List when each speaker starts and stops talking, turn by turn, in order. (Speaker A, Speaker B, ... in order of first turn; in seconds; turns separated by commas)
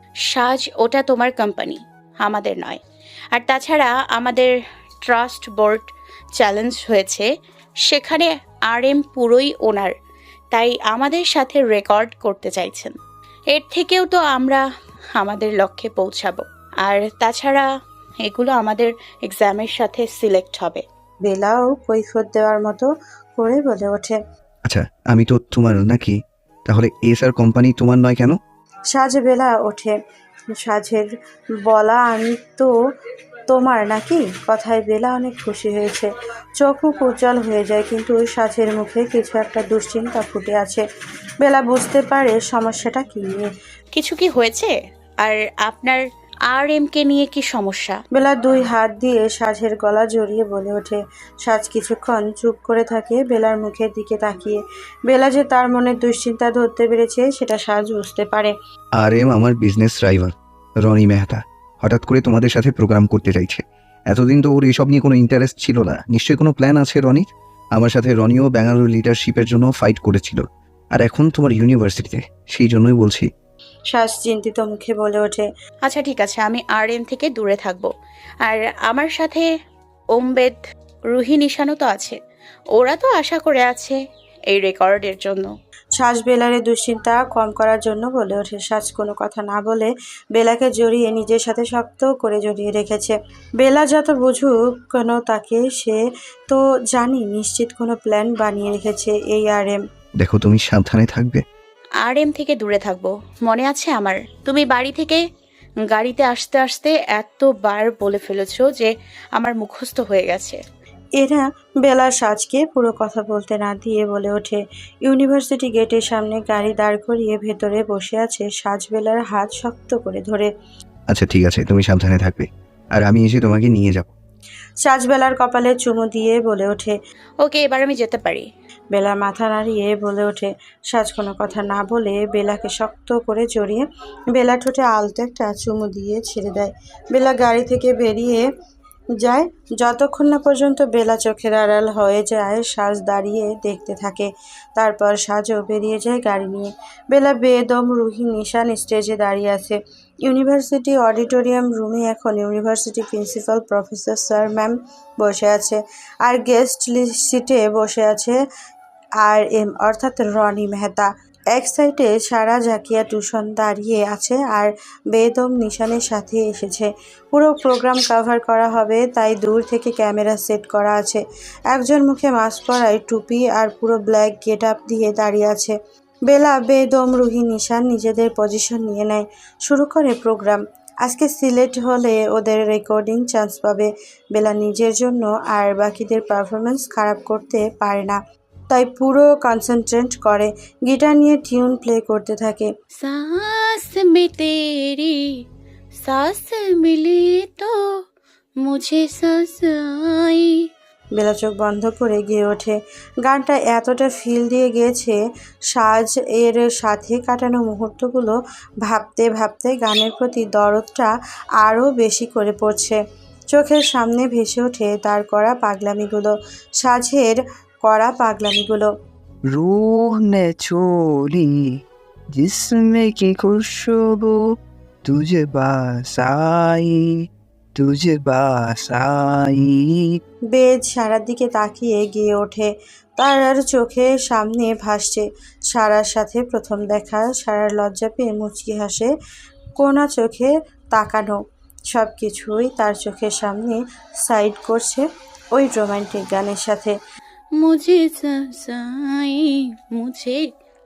Speaker A: 0.3-2.8, Speaker A: 3.4-4.5, Speaker A: 5.1-5.9, Speaker A: 6.4-7.3, Speaker A: 7.9-9.9, Speaker A: 10.5-12.9, Speaker A: 13.5-14.6, Speaker A: 15.2-17.7, Speaker A: 18.3-20.8, Speaker B: 21.2-24.2, Speaker C: 24.7-28.4, Speaker B: 28.9-29.9, Speaker B: 30.6-31.1, Speaker B: 31.7-32.7, Speaker B: 33.5-40.8, Speaker B: 41.4-43.5, Speaker A: 44.0-48.0, Speaker B: 48.1-58.5, Speaker C: 59.0-70.4, Speaker C: 70.9-73.3, Speaker B: 73.9-75.5, Speaker A: 75.8-77.9, Speaker A: 78.5-79.5, Speaker A: 80.2-80.6, Speaker A: 81.1-82.2, Speaker A: 82.8-84.0, Speaker A: 84.5-85.5, Speaker B: 86.0-96.0, Speaker B: 96.5-99.8, Speaker C: 100.2-101.4, Speaker A: 102.0-105.2, Speaker A: 105.9-110.6, Speaker B: 111.2-120.5, Speaker C: 121.1-124.1, Speaker B: 124.8-127.0, Speaker A: 127.4-128.5, Speaker B: 128.9-138.5, Speaker B: 139.2-158.4, Speaker B: 159.2-175.8, Speaker B: 176.3-188.2, Speaker B: 188.7-192.7, Speaker A: 193.0-195.2, Speaker A: 196.0-197.7, Speaker A: 198.6-200.5, Speaker B: 201.2-205.2, Speaker B: 205.7-208.4, Speaker B: 208.9-211.1, Speaker B: 211.6-213.0, Speaker B: 213.5-218.9, Speaker D: 219.5-221.6, Speaker D: 222.3-224.4, Speaker D: 225.1-227.1, Speaker D: 227.8-230.0, Speaker B: 230.5-239.1, Speaker B: 239.8-241.4, Speaker B: 241.9-245.0, Speaker B: 245.6-246.9, Speaker A: 247.6-250.4